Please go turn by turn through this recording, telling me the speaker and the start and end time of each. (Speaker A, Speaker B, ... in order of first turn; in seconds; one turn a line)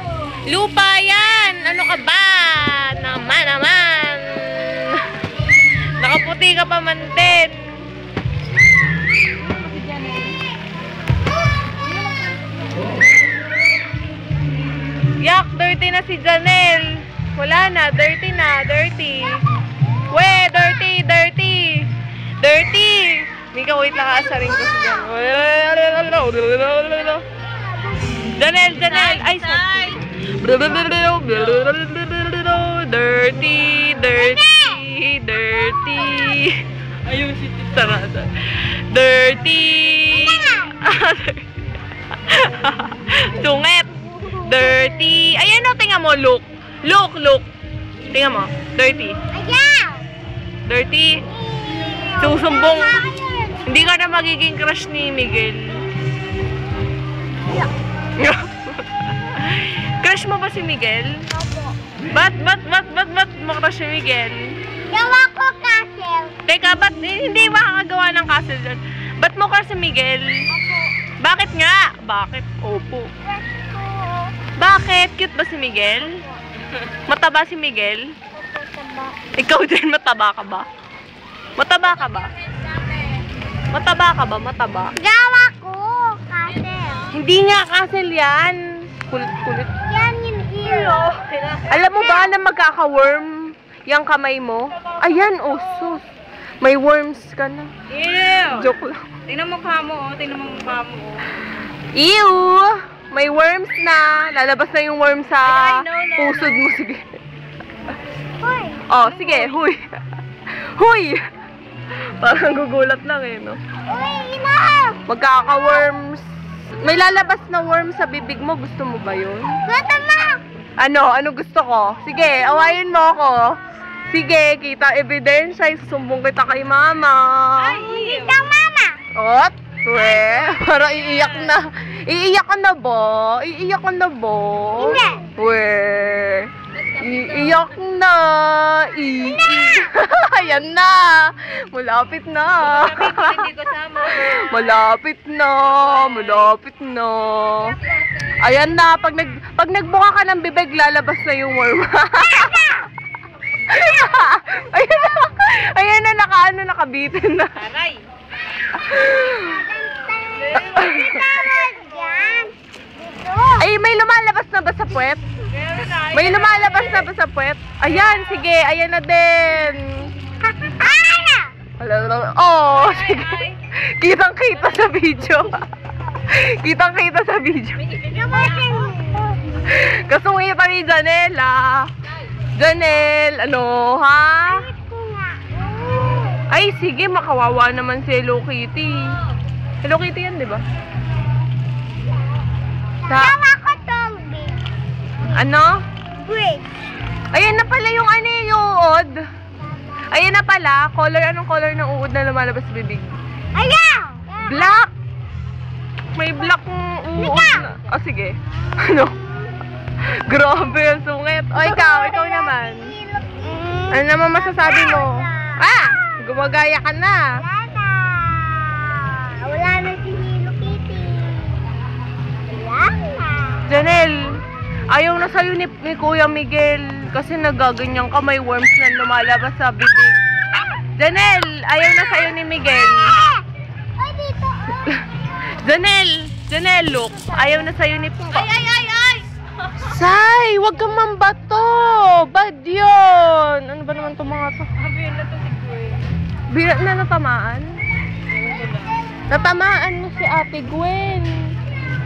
Speaker A: 0.5-5.0
Speaker A: 6.0-7.6
Speaker B: 9.5-10.4
Speaker B: 11.9-12.8
Speaker A: 15.2-19.4
Speaker A: 20.1-21.9
Speaker A: 22.4-27.2
Speaker A: 28.4-36.6
Speaker B: 28.9-30.0
Speaker C: 34.1-34.8
Speaker B: 37.1-37.4
Speaker A: 37.4-41.5
Speaker C: 40.1-40.7
Speaker A: 42.2-47.5
Speaker A: 48.1-49.2
Speaker C: 49.3-50.1
Speaker A: 50.7-51.2
Speaker C: 51.3-53.7
Speaker A: 52.2-53.0
Speaker A: 53.7-55.8
Speaker A: 58.2-58.8
Speaker A: 59.3-61.1
Speaker C: 61.3-61.8
Speaker A: 62.1-64.4
Speaker C: 64.9-66.3
Speaker A: 66.5-70.4
Speaker C: 70.5-70.9
Speaker A: 71.2-73.1
Speaker C: 73.2-74.3
Speaker A: 74.6-76.2
Speaker C: 76.1-76.4
Speaker A: 77.1-78.1
Speaker C: 78.4-79.2
Speaker A: 79.3-80.7
Speaker A: 81.6-82.3
Speaker B: 82.7-83.2
Speaker A: 83.7-84.9
Speaker C: 85.0-87.1
Speaker A: 87.1-89.7
Speaker C: 89.9-91.1
Speaker B: 90.7-91.8
Speaker A: 91.7-96.0
Speaker C: 91.9-92.3
Speaker A: 96.6-97.7
Speaker B: 97.9-98.7
Speaker A: 98.5-99.0
Speaker B: 99.3-101.5
Speaker A: 102.0-107.0
Speaker B: 105.4-106.6
Speaker C: 108.4-108.9
Speaker A: 108.9-109.8
Speaker B: 109.0-109.6
Speaker A: 110.5-111.2
Speaker A: 112.2-113.6
Speaker C: 113.9-115.0
Speaker A: 115.1-116.3
Speaker A: 116.8-119.6
Speaker C: 119.7-120.4
Speaker A: 120.8-123.5
Speaker C: 122.3-122.8
Speaker A: 124.1-127.9
Speaker B: 127.6-128.4
Speaker C: 128.0-128.9
Speaker A: 129.2-143.5
Speaker C: 129.9-130.7
Speaker B: 130.9-131.6
Speaker C: 134.8-135.3
Speaker B: 136.8-137.6
Speaker C: 139.2-139.9
Speaker B: 142.6-144.8
Speaker A: 144.1-147.8
Speaker B: 145.9-146.5
Speaker A: 148.4-152.7
Speaker C: 152.4-152.8
Speaker A: 153.7-157.6
Speaker B: 157.6-158.0
Speaker A: 158.8-159.6
Speaker C: 159.1-163.7
Speaker B: 160.4-161.5
Speaker A: 160.6-161.2
Speaker A: 163.6-165.2
Speaker B: 165.5-167.1
Speaker A: 166.1-170.1
Speaker C: 170.5-171.5
Speaker A: 171.8-175.7
Speaker B: 172.7-173.6
Speaker A: 176.3-177.8
Speaker B: 177.8-178.8
Speaker C: 178.1-179.4
Speaker A: 179.7-181.9
Speaker A: 182.6-184.7
Speaker C: 184.5-186.4
Speaker A: 186.5-189.2
Speaker A: 189.8-190.6
Speaker C: 193.0-194.6
Speaker A: 193.1-193.4
Speaker A: 195.3-195.8
Speaker C: 196.2-196.7
Speaker A: 197.3-199.2
Speaker A: 200.1-203.1
Speaker C: 203.6-204.8
Speaker A: 204.4-204.9
Speaker A: 206.2-209.2
Speaker C: 207.2-207.7
Speaker A: 210.3-212.9
Speaker C: 211.6-215.6
Speaker A: 213.9-217.3
Speaker C: 217.4-221.8
Speaker C: 222.5-223.8
Speaker A: 223.7-230.2
Speaker A: 231.0-233.2
Speaker C: 233.1-233.4
Speaker C: 234.0-234.9
Speaker A: 235.6-238.5
Speaker B: 238.3-239.3
Speaker A: 239.8-244.7
Speaker B: 244.8-246.0
Speaker A: 246.5-247.8
Speaker B: 248.3-248.9
Speaker A: 249.3-251.6